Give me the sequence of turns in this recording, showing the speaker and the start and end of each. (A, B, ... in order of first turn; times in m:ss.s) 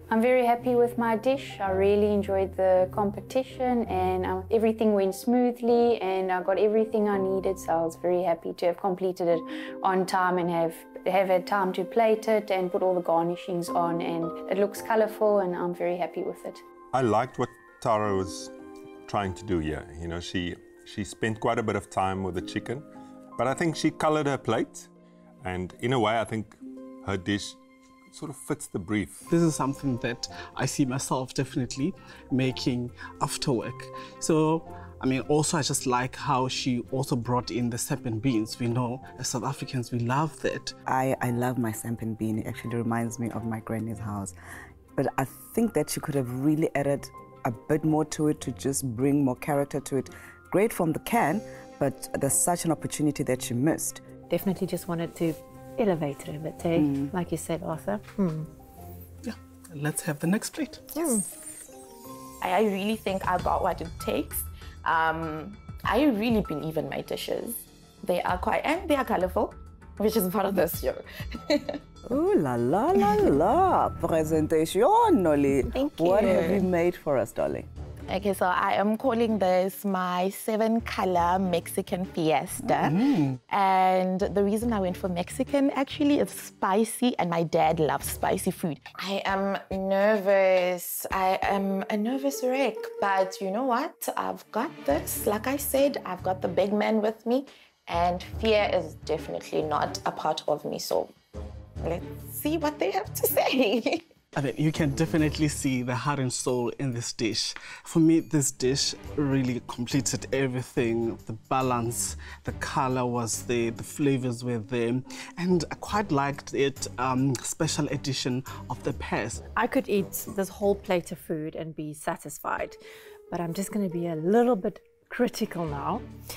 0:00.1-0:16.6 A
0:16.9-0:18.5 B
0:19.1-0:22.9 B
0:23.4-0:24.9 B
0:25.4-0:27.6 B
0:28.1-0:29.2 B
0:29.3-0:40.8 C
0:40.9-0:44.4 D
0:45.0-0:54.0 D
0:54.3-0:58.5 E
0:56.8-0:57.1 D
0:59.2-1:01.0 C
1:01.0-1:01.3 E
1:02.4-1:11.8 F
1:12.1-1:17.7 D
1:15.8-1:16.6 E
1:16.1-1:16.6 F
1:18.1-1:41.1 F
1:22.8-1:23.4 C
1:41.8-1:44.1 F
1:44.4-1:59.4 C
1:59.6-2:06.1 E